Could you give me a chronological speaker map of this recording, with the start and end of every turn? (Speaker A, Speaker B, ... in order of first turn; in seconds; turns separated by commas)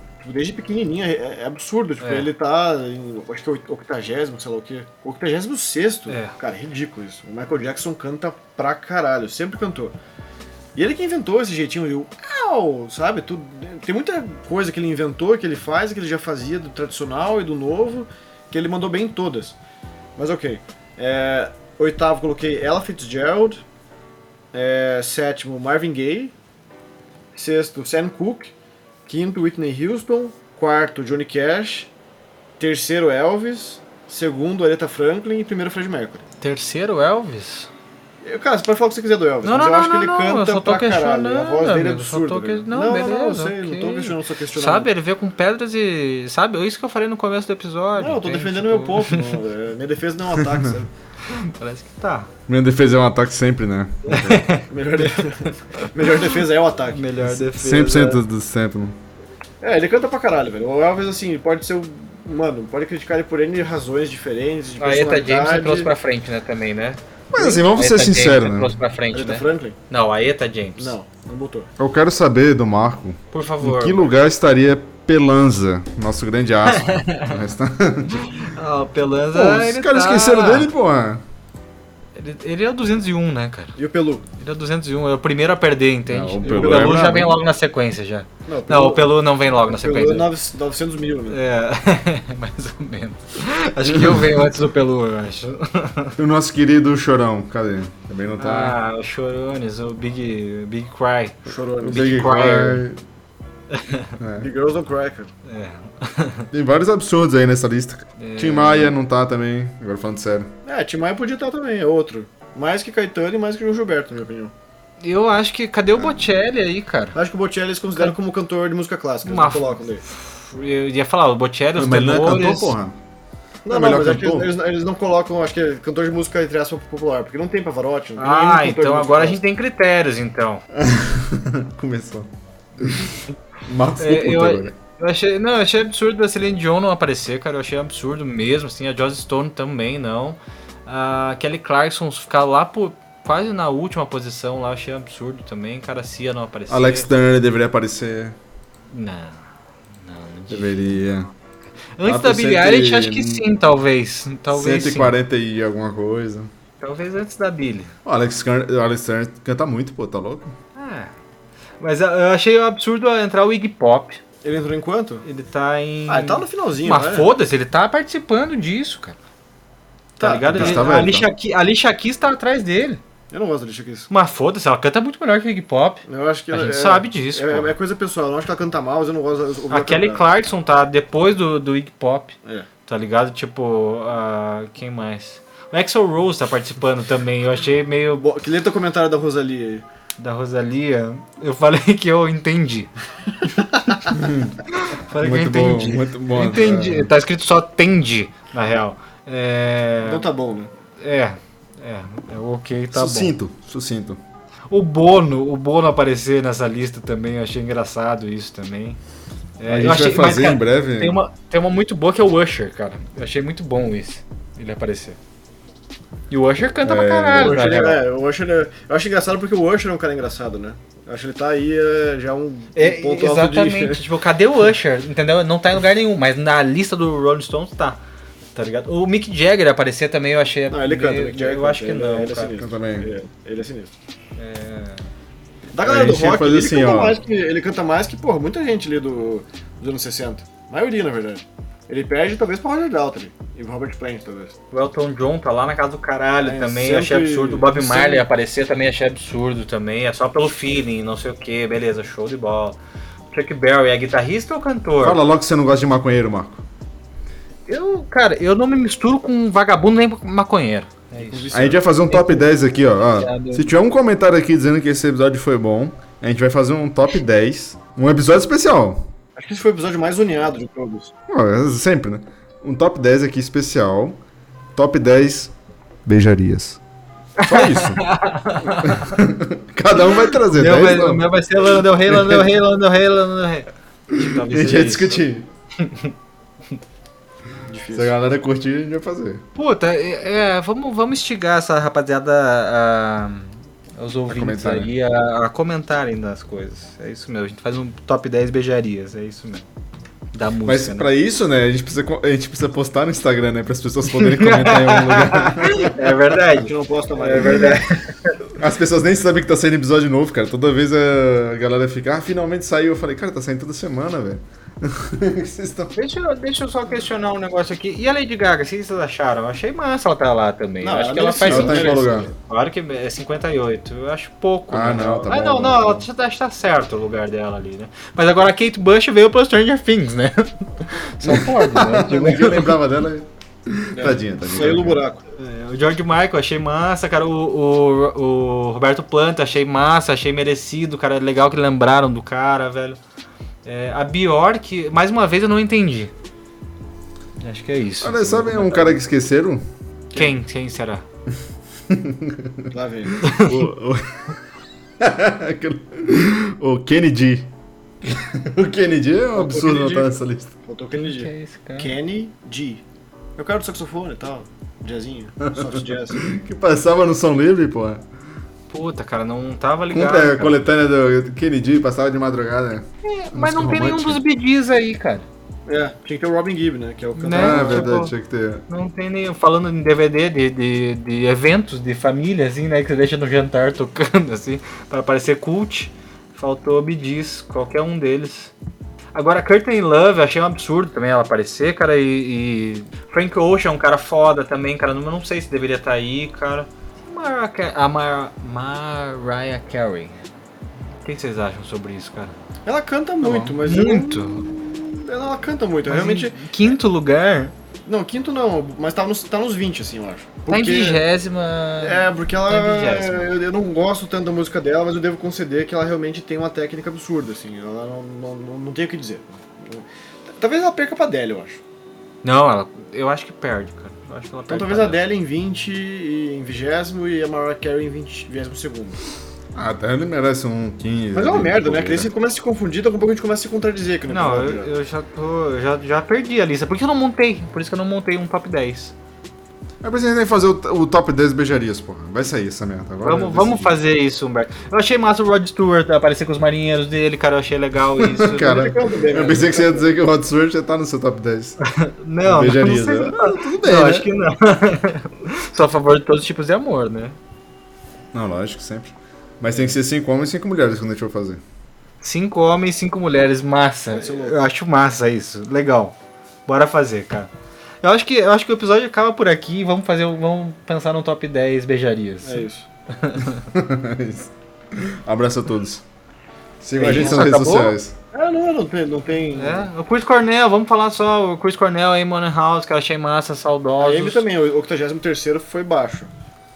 Speaker A: 0.2-9.9, Speaker B: 2.0-2.3, Speaker B: 6.1-6.3, Speaker A: 10.7-19.6, Speaker A: 20.1-23.6, Speaker A: 24.5-26.3, Speaker A: 27.3-28.5, Speaker A: 29.1-31.9, Speaker A: 32.6-36.2, Speaker B: 36.4-37.7, Speaker A: 38.2-44.9, Speaker B: 39.4-49.4, Speaker A: 48.0-50.9, Speaker B: 51.2-52.3, Speaker C: 52.5-54.4, Speaker B: 54.0-56.2, Speaker A: 54.7-57.0, Speaker B: 56.9-58.2, Speaker C: 57.3-59.0, Speaker A: 59.6-65.9, Speaker B: 64.8-71.0, Speaker C: 67.3-68.7, Speaker A: 69.1-69.8, Speaker A: 70.8-71.7, Speaker C: 71.8-78.5, Speaker B: 73.3-74.1, Speaker B: 76.7-77.3, Speaker B: 78.2-80.7, Speaker C: 79.3-81.2, Speaker B: 82.2-83.8, Speaker A: 83.8-84.3, Speaker B: 84.4-90.3, Speaker C: 86.1-87.3, Speaker A: 86.4-87.2, Speaker A: 88.5-91.4, Speaker B: 91.3-96.1, Speaker C: 96.2-98.8, Speaker B: 98.4-102.8, Speaker A: 101.5-102.1, Speaker C: 101.8-103.0, Speaker B: 103.7-104.1, Speaker C: 104.2-104.5, Speaker A: 104.4-105.3, Speaker B: 105.5-106.5, Speaker C: 106.5-110.5, Speaker B: 108.2-108.9, Speaker A: 110.6-114.5, Speaker B: 115.0-117.2, Speaker A: 117.1-120.0, Speaker B: 119.2-122.7, Speaker C: 121.8-123.0, Speaker A: 123.6-129.4, Speaker C: 123.7-124.5, Speaker B: 128.2-130.6, Speaker C: 130.7-132.3, Speaker C: 132.8-133.1, Speaker C: 133.7-134.7, Speaker B: 134.0-147.1, Speaker C: 146.7-148.3, Speaker B: 148.9-151.0, Speaker C: 150.5-151.3, Speaker B: 152.0-155.1, Speaker C: 152.0-153.4, Speaker C: 154.5-156.5, Speaker B: 156.8-157.9, Speaker C: 158.0-160.5, Speaker B: 160.8-161.1, Speaker B: 161.8-164.2, Speaker A: 164.4-165.2, Speaker B: 165.2-169.2, Speaker A: 166.1-167.3, Speaker A: 170.2-170.9, Speaker B: 170.2-173.0, Speaker C: 170.5-171.3, Speaker A: 173.3-174.1, Speaker B: 174.1-177.7, Speaker A: 176.1-180.2, Speaker B: 179.7-182.3, Speaker B: 182.9-188.2, Speaker A: 188.2-189.8, Speaker B: 190.2-192.9, Speaker A: 193.4-193.9, Speaker C: 194.1-194.6, Speaker B: 194.9-200.2, Speaker C: 195.2-197.1, Speaker A: 200.0-200.7, Speaker B: 201.0-203.3, Speaker C: 202.9-204.2, Speaker B: 204.7-209.0, Speaker B: 209.6-215.2, Speaker C: 209.7-211.2, Speaker B: 216.3-218.0, Speaker C: 216.8-217.6, Speaker A: 217.3-224.0, Speaker B: 222.7-228.0, Speaker B: 228.5-232.5, Speaker A: 230.7-233.9, Speaker C: 232.6-233.1, Speaker B: 234.4-235.1, Speaker A: 235.7-244.6, Speaker C: 235.8-237.2, Speaker B: 244.7-252.8, Speaker A: 246.4-248.2, Speaker B: 253.3-255.2, Speaker C: 255.0-256.6, Speaker B: 257.7-261.5, Speaker A: 261.2-261.8, Speaker C: 261.5-269.1, Speaker B: 262.1-263.7, Speaker A: 269.4-271.1, Speaker C: 271.3-274.2, Speaker C: 274.8-275.5, Speaker C: 276.1-276.8, Speaker B: 277.4-279.2, Speaker C: 277.4-278.0, Speaker C: 278.8-281.2, Speaker B: 280.0-285.2, Speaker C: 282.1-282.4, Speaker C: 284.1-285.5, Speaker B: 285.8-286.1, Speaker A: 287.6-288.1, Speaker C: 287.9-289.4, Speaker B: 289.6-299.6, Speaker C: 294.3-294.9, Speaker B: 300.3-301.1, Speaker C: 300.6-306.1, Speaker B: 304.1-308.3, Speaker A: 306.5-307.9, Speaker C: 308.6-315.9, Speaker B: 315.9-332.8, Speaker A: 320.8-322.2, Speaker C: 321.5-322.3, Speaker C: 324.7-326.1, Speaker C: 331.2-335.0, Speaker A: 333.9-335.2, Speaker B: 335.3-343.0, Speaker B: 343.6-346.1, Speaker B: 347.4-349.0, Speaker C: 348.0-349.6, Speaker B: 350.1-351.0, Speaker C: 351.9-352.7, Speaker A: 352.7-353.1, Speaker B: 353.2-353.6, Speaker C: 353.3-354.2, Speaker C: 355.0-357.5, Speaker C: 358.0-360.5, Speaker A: 359.3-362.8, Speaker B: 360.9-361.9, Speaker A: 363.4-366.2, Speaker C: 365.4-368.0, Speaker B: 368.7-370.6, Speaker C: 369.9-374.2, Speaker B: 373.0-375.2, Speaker A: 375.6-377.9, Speaker B: 377.1-378.1, Speaker C: 377.3-378.6, Speaker B: 378.7-388.5, Speaker B: 389.1-400.1, Speaker B: 401.0-402.3, Speaker A: 402.6-406.4, Speaker B: 403.2-404.4, Speaker B: 405.9-407.5, Speaker A: 407.9-411.0, Speaker B: 410.5-413.3, Speaker A: 411.8-421.6, Speaker B: 422.2-425.0, Speaker A: 424.5-429.0, Speaker C: 429.5-432.1, Speaker A: 431.1-434.7, Speaker B: 434.1-438.9, Speaker C: 439.8-443.7, Speaker B: 443.0-448.7, Speaker C: 448.1-451.6, Speaker A: 448.3-449.9, Speaker B: 451.6-457.1, Speaker C: 452.2-454.1, Speaker C: 458.1-461.4, Speaker B: 462.0-465.9, Speaker A: 463.9-464.3, Speaker B: 466.5-467.3, Speaker B: 467.8-473.4, Speaker A: 472.2-472.6, Speaker C: 473.5-475.8, Speaker C: 476.6-477.9, Speaker A: 476.8-477.3, Speaker B: 476.8-477.8, Speaker A: 478.1-479.7, Speaker B: 479.4-484.2, Speaker A: 483.8-486.1